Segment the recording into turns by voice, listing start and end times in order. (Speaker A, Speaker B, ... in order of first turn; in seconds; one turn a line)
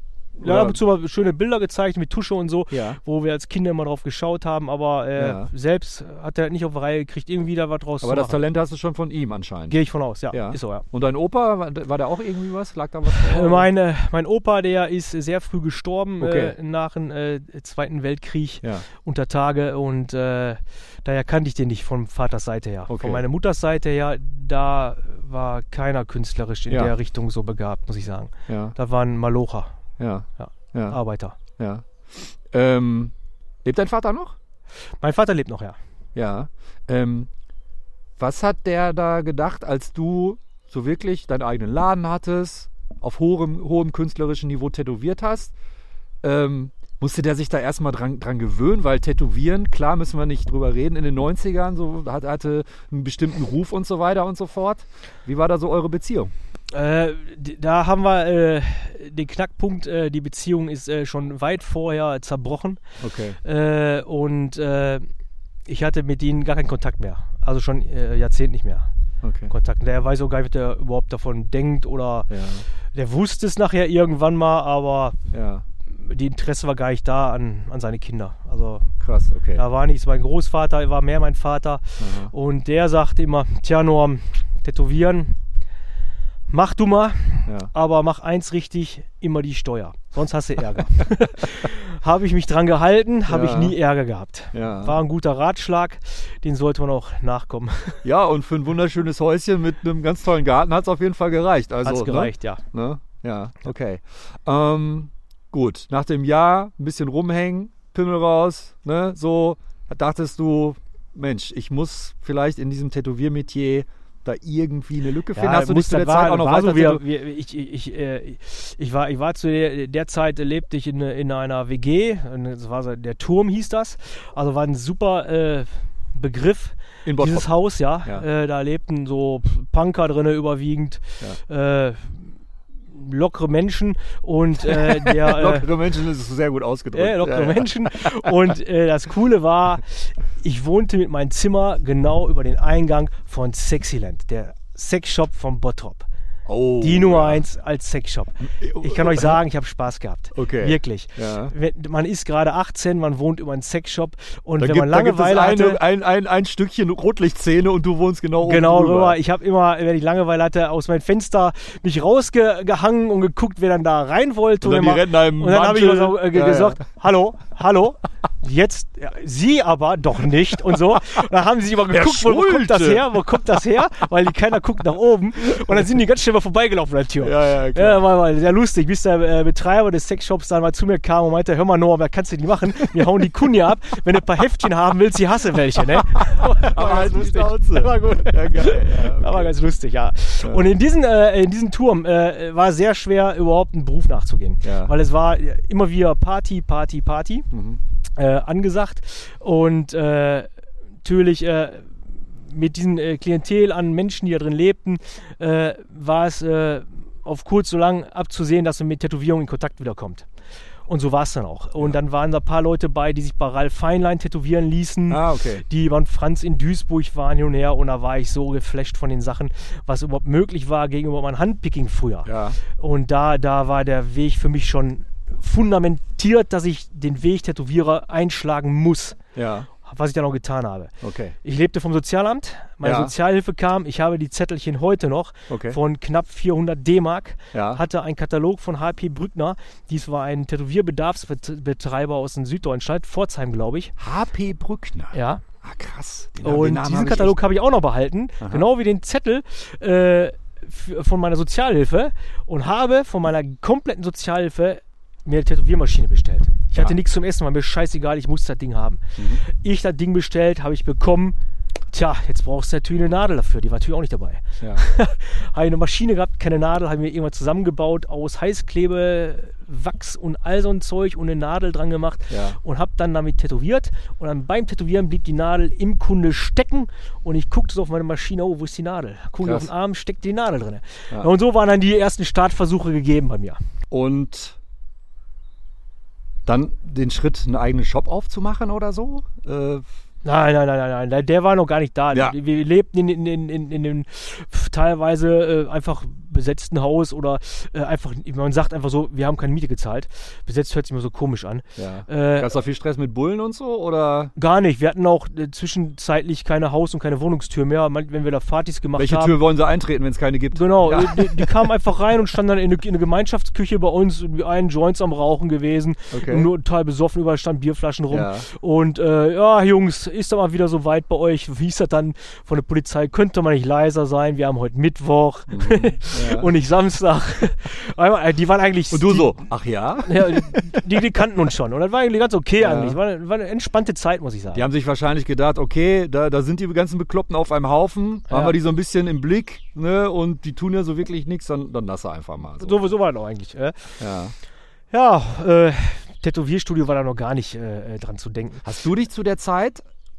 Speaker A: 0.4-0.8
Speaker B: 0.4-8.4
Speaker A: 2.7-3.0
Speaker A: 5.2-5.5
Speaker A: 8.0-9.8
Speaker B: 9.7-10.9
Speaker A: 10.3-13.7
Speaker B: 13.1-29.7
Speaker A: 16.2-16.5
Speaker A: 22.9-23.2
Speaker A: 28.5-28.8
Speaker A: 30.0-31.0
Speaker B: 30.4-31.4
Speaker A: 31.6-33.1
Speaker A: 33.6-34.4
Speaker B: 35.0-35.8
Speaker A: 36.1-37.3
Speaker A: 38.2-45.5
Speaker A: 46.2-56.3
Speaker B: 56.7-62.8
Speaker A: 63.0-63.4
Speaker B: 63.4-65.1
Speaker B: 65.7-68.9
Speaker A: 69.2-69.5
Speaker B: 69.5-72.3
Speaker A: 72.3-72.7
Speaker B: 72.9-75.2
Speaker A: 75.3-75.7
Speaker B: 75.9-78.9
Speaker A: 79.0-79.6
Speaker B: 79.5-85.4
Speaker A: 82.0-82.3
Speaker B: 86.5-98.0
Speaker A: 87.5-87.7
Speaker A: 93.3-93.8
Speaker A: 94.5-95.0
Speaker A: 98.0-117.0
Speaker B: 101.8-102.6
Speaker B: 115.3-132.3
Speaker A: 127.0-127.5
Speaker B: 132.9-135.7
Speaker A: 134.6-138.3
Speaker B: 136.9-146.1
Speaker A: 146.5-147.4
Speaker B: 146.8-155.8
Speaker A: 148.5-149.4
Speaker A: 150.3-151.5
Speaker A: 154.6-159.2
Speaker B: 158.4-197.5
Speaker A: 164.6-166.8
Speaker A: 171.9-173.1
Speaker A: 177.2-178.0
Speaker A: 186.3-189.5
Speaker A: 190.4-190.7
Speaker A: 194.6-194.9
Speaker A: 197.5-197.8
Speaker B: 198.2-200.5
Speaker B: 201.0-210.3
Speaker B: 210.9-229.2
Speaker A: 215.1-215.7
Speaker A: 222.2-222.6
Speaker A: 229.3-229.7
Speaker B: 229.8-243.9
Speaker A: 231.0-231.4
Speaker A: 232.8-233.1
Speaker A: 235.5-235.8
Speaker A: 237.5-237.8
Speaker A: 244.0-247.4
Speaker B: 245.1-245.4
Speaker B: 246.4-261.4
Speaker A: 248.4-248.7
Speaker A: 259.2-259.4
Speaker B: 261.9-283.6
Speaker A: 272.3-272.6
Speaker A: 279.4-279.7
Speaker A: 283.9-284.6
Speaker A: 286.5-289.9
Speaker B: 290.2-302.5
Speaker A: 301.8-304.3
Speaker B: 304.4-309.4
Speaker A: 309.0-311.7
Speaker B: 310.6-329.4
Speaker A: 316.1-316.5
Speaker A: 318.1-318.5
Speaker A: 325.5-326.5
Speaker A: 328.9-330.8
Speaker B: 330.1-334.7
Speaker A: 332.6-333.0
Speaker A: 334.5-342.9
Speaker B: 338.3-338.6
Speaker B: 342.6-344.0
Speaker A: 344.0-344.3
Speaker B: 344.9-348.6
Speaker A: 348.6-349.8